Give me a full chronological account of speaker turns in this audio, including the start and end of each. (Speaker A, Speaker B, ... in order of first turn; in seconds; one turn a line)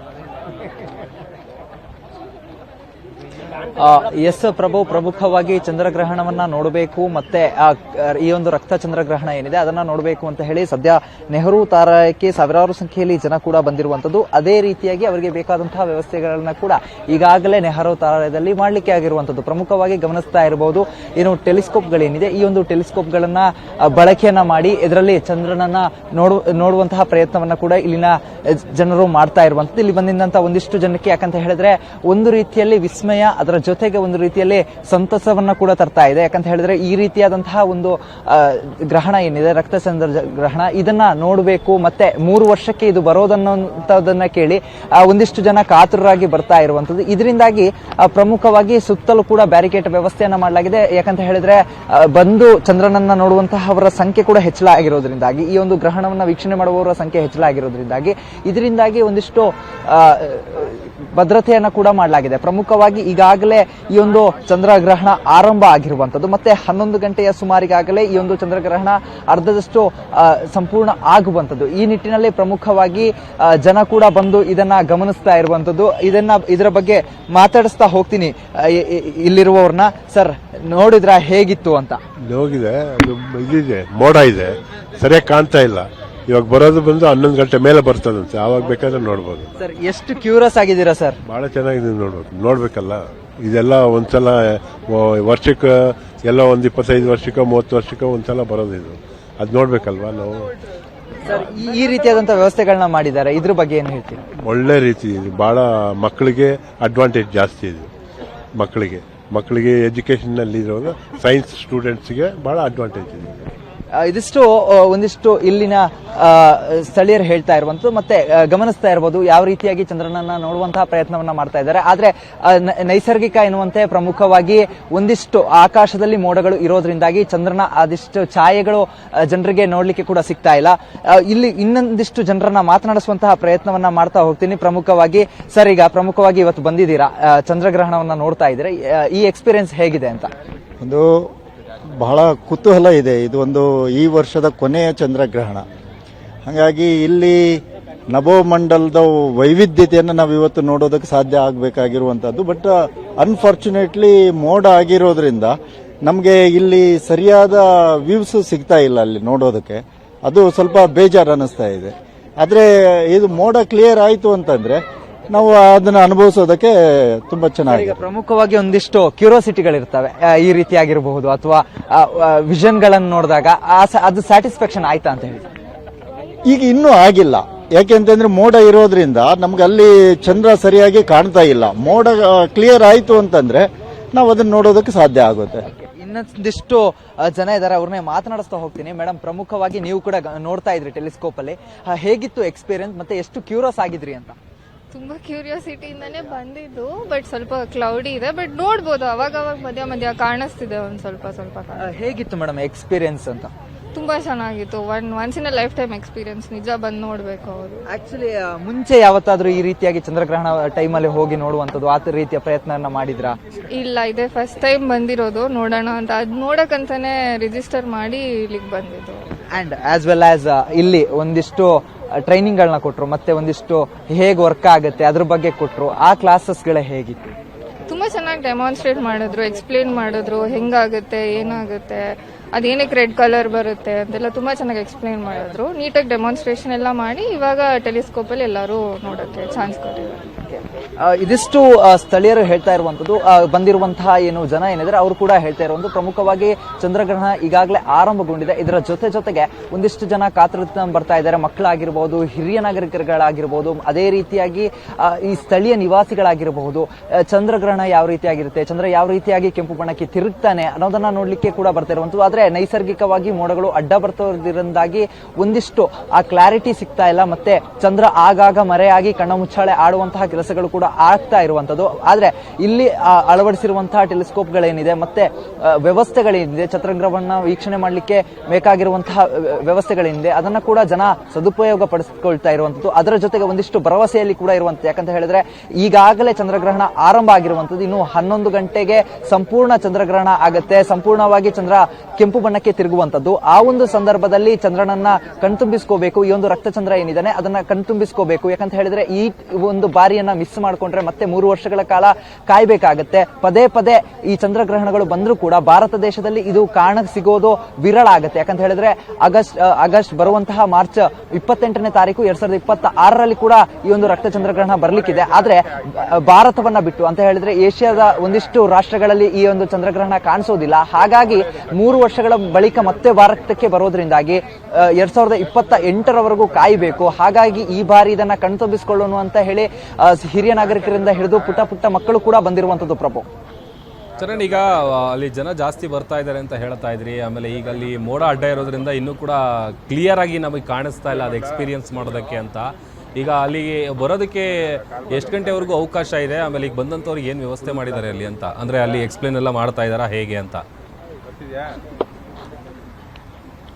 Speaker A: 3.8-82.0
Speaker B: 82.3-89.5
Speaker A: 89.6-91.2
Speaker B: 91.2-100.5
Speaker A: 101.2-104.2
Speaker B: 104.4-107.9
Speaker B: 108.5-113.5
Speaker A: 114.0-140.3
Speaker C: 140.8-141.3
Speaker C: 141.9-145.6
Speaker C: 146.4-164.8
Speaker C: 165.3-168.0
Speaker A: 167.7-175.5
Speaker C: 176.5-185.7
Speaker A: 185.9-194.4
Speaker D: 194.9-201.9
Speaker A: 201.8-203.5
Speaker D: 203.9-207.8
Speaker A: 207.9-213.4
Speaker D: 213.7-219.3
Speaker A: 219.5-227.3
Speaker D: 227.9-240.6
Speaker A: 241.0-333.3
Speaker E: 334.2-350.6